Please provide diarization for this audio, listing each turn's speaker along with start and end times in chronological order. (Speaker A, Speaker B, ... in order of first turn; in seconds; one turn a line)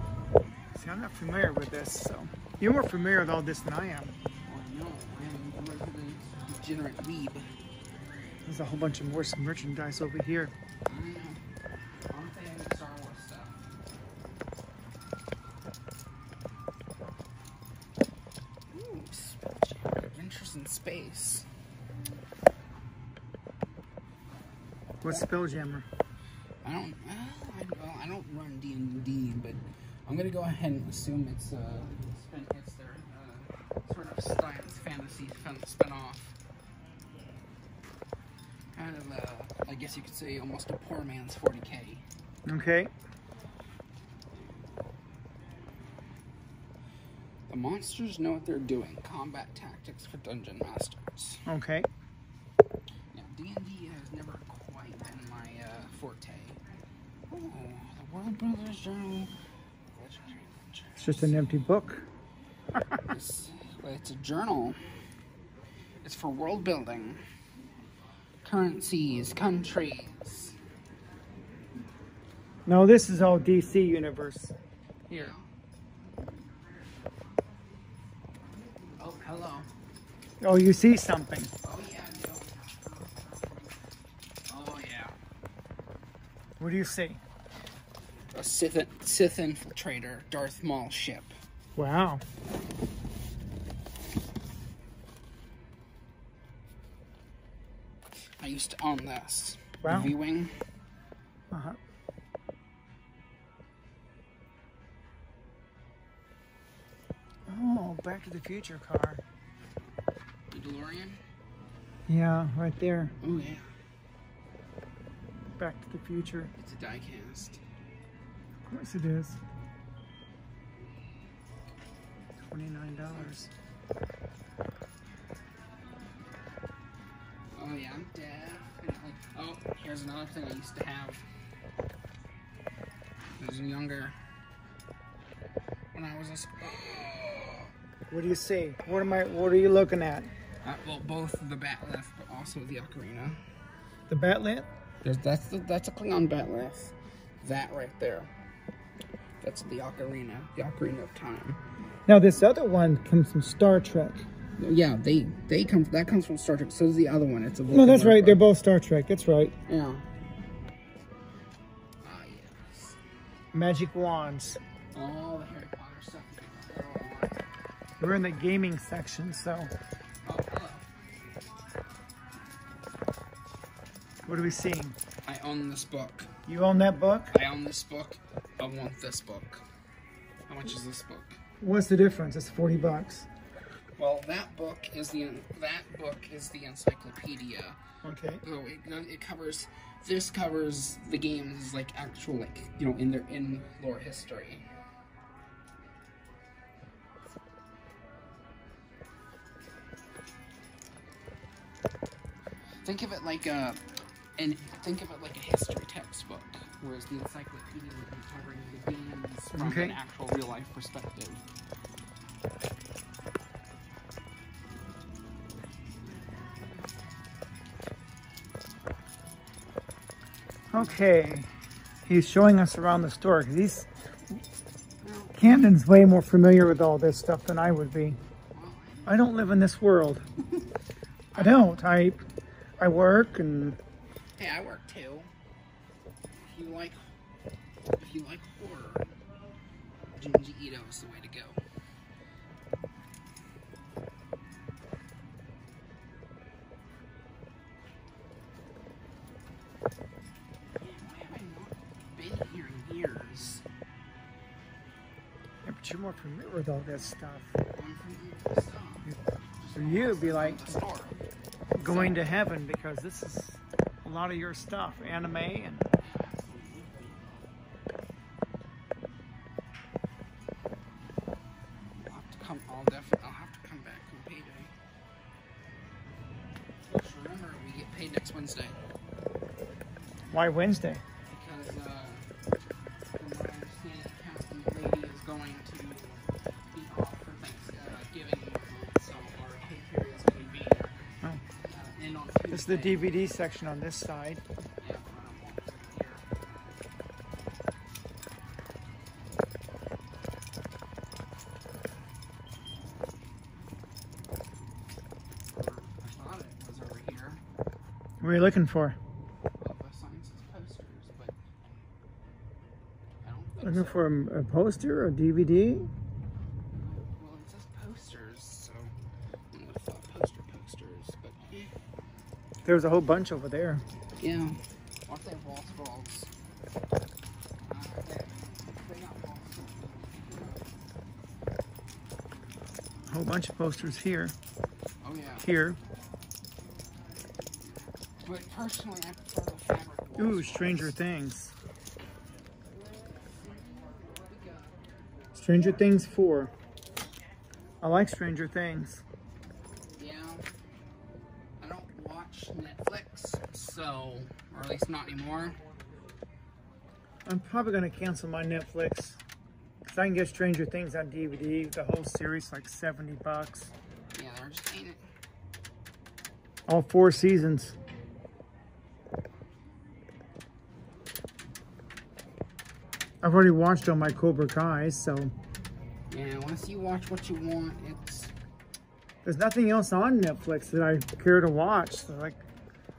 Speaker A: 0.8-4.2
Speaker B: 4.5-7.5
Speaker A: 8.5-10.5
Speaker B: 10.9-11.4
Speaker B: 12.1-13.6
Speaker B: 18.7-21.5
Speaker A: 25.0-25.9
Speaker B: 25.1-25.4
Speaker B: 26.6-36.3
Speaker B: 38.8-42.0
Speaker A: 42.5-42.9
Speaker B: 47.5-51.4
Speaker A: 51.5-51.9
Speaker B: 53.1-56.6
Speaker B: 57.3-59.3
Speaker B: 59.9-61.4
Speaker A: 61.0-62.1
Speaker B: 63.0-64.8
Speaker B: 66.0-67.2
Speaker B: 68.4-70.5
Speaker A: 72.7-74.5
Speaker A: 75.1-75.3
Speaker B: 75.1-75.5
Speaker B: 79.0-79.7
Speaker A: 80.4-81.5
Speaker B: 81.6-83.8
Speaker B: 84.5-85.2
Speaker A: 86.6-87.2
Speaker B: 88.3-91.3
Speaker A: 91.8-92.2
Speaker B: 98.4-100.5
Speaker A: 99.8-100.1
Speaker A: 101.5-101.8
Speaker A: 107.5-109.2
Speaker B: 110.5-111.2
Speaker A: 112.1-113.2
Speaker B: 113.2-113.7
Speaker A: 115.6-116.5
Speaker B: 116.6-117.6
Speaker A: 118.7-119.4
Speaker A: 122.5-123.5
Speaker B: 123.1-123.5
Speaker B: 127.5-131.2
Speaker B: 133.4-134.2
Speaker B: 135.9-137.7
Speaker A: 138.1-140.3
Speaker B: 140.6-143.4
Speaker A: 144.1-144.7
Speaker B: 145.0-148.3
Speaker B: 149.4-151.6
Speaker A: 152.1-154.3
Speaker B: 154.6-158.4
Speaker A: 157.7-159.5
Speaker B: 159.7-160.1
Speaker B: 162.0-163.0
Speaker A: 163.5-164.6
Speaker B: 164.9-167.4
Speaker A: 168.0-169.7
Speaker B: 170.2-170.9
Speaker A: 174.3-175.0
Speaker B: 175.2-176.3
Speaker A: 176.5-177.3
Speaker B: 177.3-179.6
Speaker B: 180.5-181.4
Speaker A: 181.6-183.3
Speaker B: 184.0-187.8
Speaker A: 188.0-188.4
Speaker B: 188.4-194.7
Speaker B: 202.8-203.8
Speaker B: 204.4-211.4
Speaker A: 209.6-210.0
Speaker A: 220.7-221.5
Speaker B: 220.7-221.0
Speaker A: 222.1-224.4
Speaker B: 225.0-225.6
Speaker A: 225.4-228.2
Speaker B: 228.5-229.3
Speaker A: 229.1-230.2
Speaker B: 231.3-231.8
Speaker A: 231.4-232.2
Speaker A: 232.8-233.8
Speaker B: 234.4-235.3
Speaker B: 236.4-237.0
Speaker B: 238.0-239.1
Speaker B: 240.1-241.6
Speaker B: 250.8-253.6
Speaker A: 255.7-257.5
Speaker B: 257.7-261.2
Speaker A: 259.8-260.8
Speaker A: 261.8-265.9
Speaker B: 261.8-262.3
Speaker B: 266.0-267.5
Speaker B: 272.0-274.7
Speaker B: 276.9-278.8
Speaker A: 280.3-281.0
Speaker B: 281.3-282.3
Speaker B: 283.1-291.0
Speaker B: 291.6-293.2
Speaker A: 292.5-294.4
Speaker B: 294.8-296.2
Speaker B: 305.5-307.4
Speaker A: 308.2-309.0
Speaker B: 309.6-311.4
Speaker B: 313.2-314.1
Speaker A: 313.6-315.9
Speaker B: 316.7-318.9
Speaker B: 319.5-321.7
Speaker A: 322.6-323.9
Speaker B: 324.2-326.3
Speaker B: 327.7-330.8
Speaker A: 333.1-334.4
Speaker B: 335.0-335.5
Speaker A: 335.4-335.8
Speaker B: 337.8-341.0
Speaker A: 340.2-341.6
Speaker B: 343.2-344.8
Speaker A: 345.4-346.5
Speaker A: 347.8-349.0
Speaker B: 350.0-350.4
Speaker B: 351.6-355.6
Speaker A: 357.3-359.2
Speaker A: 359.9-363.7
Speaker B: 364.1-365.0
Speaker A: 366.7-367.8
Speaker A: 373.2-375.3
Speaker B: 376.1-378.3
Speaker A: 379.2-382.4